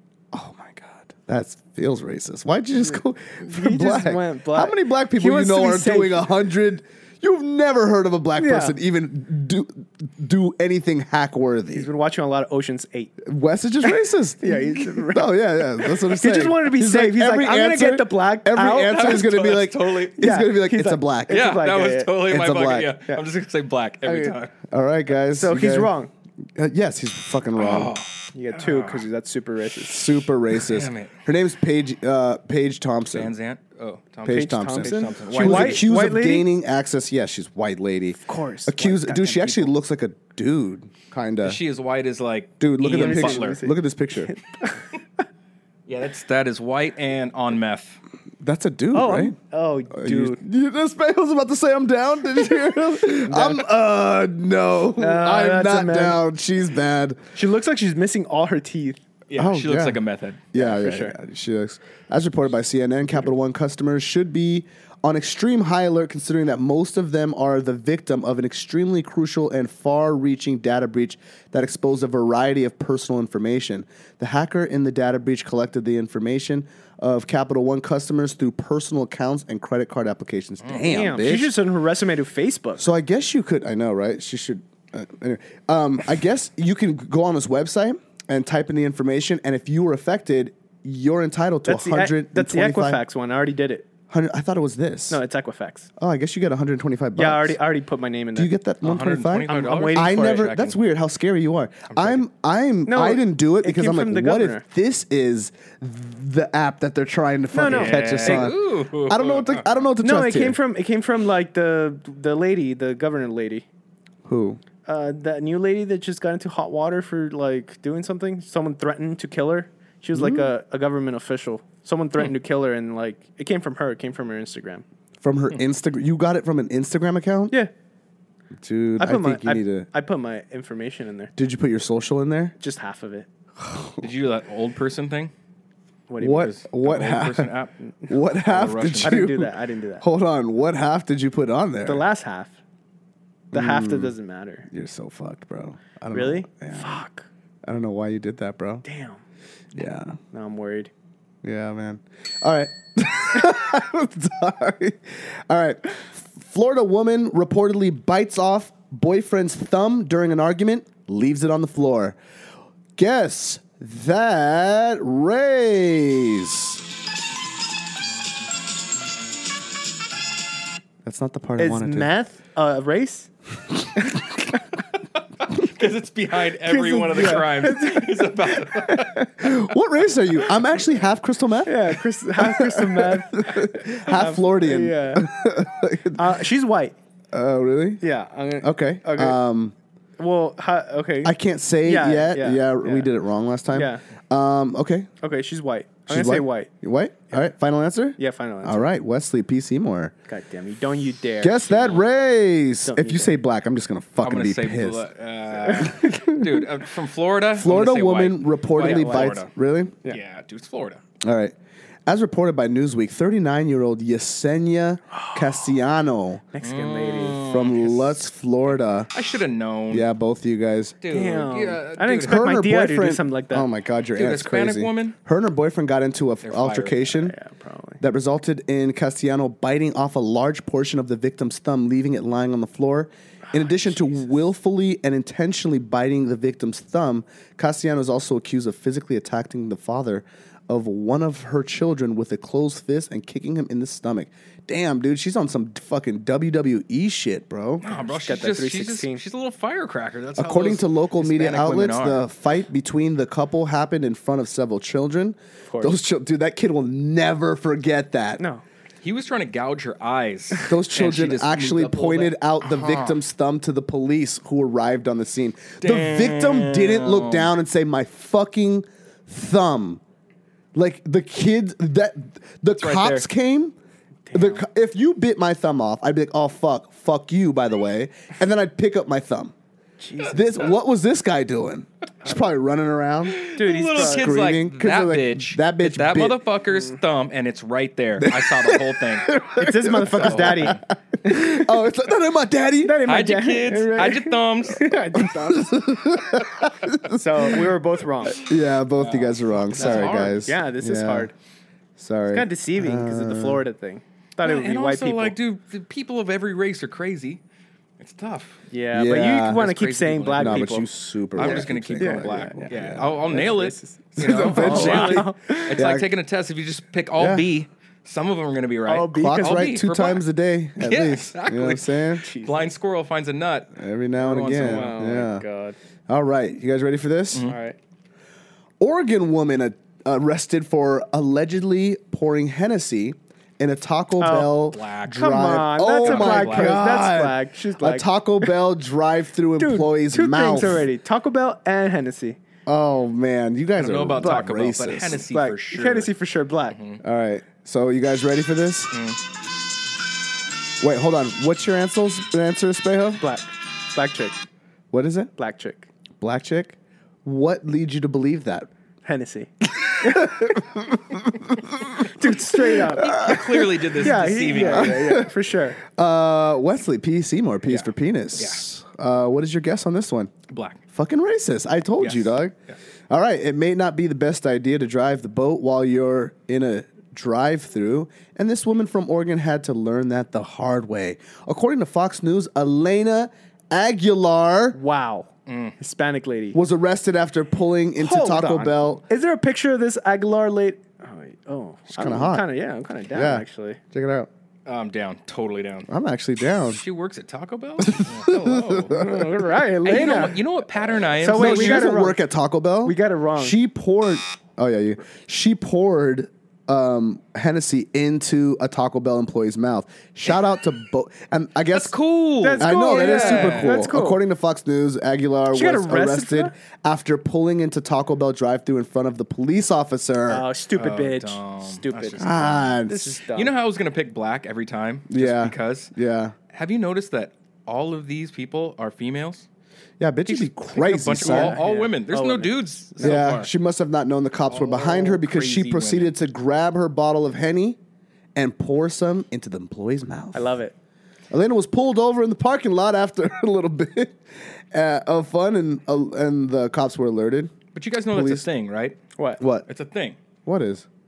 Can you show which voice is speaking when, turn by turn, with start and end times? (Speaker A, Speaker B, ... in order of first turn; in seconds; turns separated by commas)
Speaker A: 0.3-11.9, Speaker B: 2.9-6.3, Speaker B: 8.4-8.8, Speaker B: 11.7-13.2, Speaker A: 13.2-21.5, Speaker B: 13.8-19.2, Speaker C: 18.8-20.2, Speaker B: 20.2-22.1, Speaker C: 21.3-24.6, Speaker A: 22.2-22.9, Speaker B: 24.1-24.4, Speaker A: 24.6-25.9, Speaker B: 25.3-26.1, Speaker A: 26.6-27.9, Speaker C: 27.6-29.1, Speaker B: 28.4-30.1, Speaker A: 29.8-33.3, Speaker C: 30.5-31.1, Speaker C: 33.1-35.8, Speaker A: 34.2-41.6, Speaker B: 34.3-36.5, Speaker B: 38.2-39.7, Speaker C: 41.4-43.6, Speaker A: 42.6-44.3, Speaker B: 42.9-44.8, Speaker C: 45.9-48.0, Speaker A: 48.4-49.4, Speaker B: 48.9-50.4, Speaker A: 49.9-57.2, Speaker B: 55.0-56.2, Speaker B: 57.4-59.0, Speaker C: 59.3-60.5, Speaker A: 59.4-60.0, Speaker A: 60.5-81.5, Speaker B: 60.5-61.2, Speaker B: 80.9-82.9, Speaker A: 82.8-93.0, Speaker B: 91.7-93.9, Speaker A: 94.1-95.2, Speaker B: 95.1-95.9, Speaker A: 96.0-97.6, Speaker B: 97.2-98.5, Speaker A: 98.3-110.6, Speaker C: 98.8-100.8, Speaker B: 99.4-100.5, Speaker C: 101.9-102.2, Speaker B: 102.9-104.6, Speaker B: 107.5-108.5, Speaker C: 107.7-109.8, Speaker B: 110.0-113.7, Speaker A: 114.2-114.6, Speaker B: 114.8-124.8, Speaker A: 120.1-120.5, Speaker A: 125.2-127.5, Speaker A: 128.6-129.9, Speaker B: 129.0-131.3, Speaker A: 131.4-132.5, Speaker B: 132.6-133.3, Speaker A: 133.6-134.0, Speaker C: 134.0-135.3, Speaker B: 136.1-136.5, Speaker A: 136.2-137.5, Speaker C: 136.3-137.7, Speaker A: 138.1-142.1, Speaker C: 138.3-139.2, Speaker B: 139.0-140.1, Speaker B: 141.8-142.6, Speaker A: 143.5-144.1, Speaker B: 143.5-144.7, Speaker A: 144.7-147.0, Speaker B: 146.1-147.3, Speaker A: 147.6-148.8, Speaker B: 148.8-149.2, Speaker A: 149.7-150.2, Speaker B: 150.3-150.9, Speaker A: 151.4-162.2, Speaker A: 163.0-166.8, Speaker A: 171.0-172.1, Speaker B: 171.6-173.3, Speaker C: 175.5-179.3, Speaker B: 176.7-179.3, Speaker A: 179.4-186.4, Speaker B: 181.7-185.3, Speaker B: 186.1-186.9, Speaker A: 187.3-188.0, Speaker B: 188.0-189.4, Speaker A: 188.6-189.8, Speaker B: 190.2-193.1, Speaker A: 191.2-195.1, Speaker B: 193.7-194.0, Speaker B: 195.2-196.7, Speaker A: 196.1-200.1, Speaker B: 198.2-198.9, Speaker B: 200.3-202.1, Speaker A: 201.4-205.1, Speaker B: 202.8-203.4, Speaker C: 204.2-209.5, Speaker A: 205.9-206.4, Speaker A: 207.6-210.0, Speaker B: 208.8-209.4, Speaker C: 210.1-211.0, Speaker A: 211.2-211.6, Speaker A: 212.1-216.4, Speaker B: 216.5-217.4, Speaker C: 216.6-218.2, Speaker A: 217.4-219.1, Speaker C: 219.1-220.1, Speaker A: 219.9-221.0, Speaker C: 221.0-222.4, Speaker B: 221.1-223.7, Speaker A: 222.2-227.3, Speaker C: 224.1-225.2, Speaker C: 226.4-227.3, Speaker B: 227.2-228.0, Speaker A: 228.0-247.8, Speaker C: 247.8-252.2, Speaker B: 248.1-249.2, Speaker A: 250.4-258.4, Speaker B: 255.7-256.0, Speaker B: 258.4-258.6, Speaker C: 259.0-263.2, Speaker A: 260.7-270.0, Speaker C: 265.8-267.5, Speaker A: 270.8-273.8, Speaker C: 272.8-273.3, Speaker B: 274.3-274.6, Speaker A: 274.3-279.5, Speaker B: 280.0-280.4, Speaker A: 280.3-283.4, Speaker C: 283.3-289.4, Speaker B: 283.5-284.4, Speaker A: 284.0-286.4, Speaker A: 288.2-293.0, Speaker B: 289.6-291.7, Speaker C: 290.1-290.8, Speaker B: 292.8-295.9, Speaker C: 293.1-295.0, Speaker A: 295.4-297.7, Speaker B: 297.1-298.4, Speaker A: 298.3-301.3, Speaker C: 299.0-300.5, Speaker B: 299.8-301.3, Speaker A: 302.0-303.6, Speaker B: 302.3-305.4, Speaker C: 304.4-307.4, Speaker C: 308.0-308.6, Speaker B: 308.7-315.8, Speaker A: 308.9-309.7, Speaker C: 309.5-320.2, Speaker A: 310.4-313.4, Speaker A: 314.2-316.1, Speaker A: 317.2-317.5, Speaker B: 318.9-319.6, Speaker A: 319.1-322.2, Speaker C: 320.8-325.0, Speaker B: 322.2-322.6, Speaker A: 323.8-325.4, Speaker B: 324.6-325.8, Speaker A: 326.1-327.5, Speaker B: 327.4-327.8, Speaker A: 328.8-340.9, Speaker B: 334.2-338.5, Speaker C: 334.7-335.4, Speaker C: 336.0-336.8, Speaker B: 339.6-342.4, Speaker A: 342.7-345.2, Speaker C: 343.8-346.1, Speaker B: 344.2-344.5, Speaker B: 345.3-346.8, Speaker C: 346.7-347.0, Speaker A: 347.0-348.9, Speaker C: 348.9-349.2, Speaker A: 350.8-353.2, Speaker B: 353.2-354.4, Speaker A: 354.9-355.3, Speaker B: 355.4-355.9, Speaker A: 356.2-358.7, Speaker B: 359.1-359.5, Speaker A: 359.8-363.9, Speaker B: 360.0-360.3, Speaker B: 362.0-365.8, Speaker C: 363.0-365.2, Speaker A: 364.5-365.3, Speaker A: 365.9-370.3, Speaker C: 370.5-370.8, Speaker A: 370.9-372.6, Speaker C: 372.0-372.8, Speaker A: 373.1-384.8, Speaker B: 384.7-386.6, Speaker C: 385.5-385.8, Speaker A: 386.5-389.0, Speaker B: 388.0-393.8, Speaker A: 391.9-392.5, Speaker A: 393.1-394.3, Speaker C: 394.7-395.9, Speaker A: 395.9-396.8, Speaker C: 396.7-399.0, Speaker A: 397.8-399.2, Speaker B: 398.9-400.4, Speaker C: 399.8-401.9, Speaker B: 401.2-402.2, Speaker A: 401.3-411.9, Speaker B: 402.8-403.6, Speaker C: 411.7-413.8, Speaker B: 412.4-414.2, Speaker A: 412.6-420.5, Speaker B: 415.5-416.5, Speaker B: 420.3-422.3, Speaker C: 420.8-425.9, Speaker A: 422.2-423.1, Speaker B: 422.9-423.6, Speaker A: 425.1-426.4, Speaker C: 426.5-429.5, Speaker A: 430.0-431.6, Speaker C: 430.3-433.5, Speaker B: 431.2-433.5, Speaker A: 433.0-437.8, Speaker C: 434.5-436.1, Speaker A: 438.4-440.5, Speaker B: 440.3-440.7, Speaker A: 441.3-444.2, Speaker A: 444.7-447.6, Speaker C: 447.8-449.0, Speaker A: 448.1-448.4, Speaker A: 449.4-449.7, Speaker C: 449.7-450.2, Speaker A: 450.5-450.9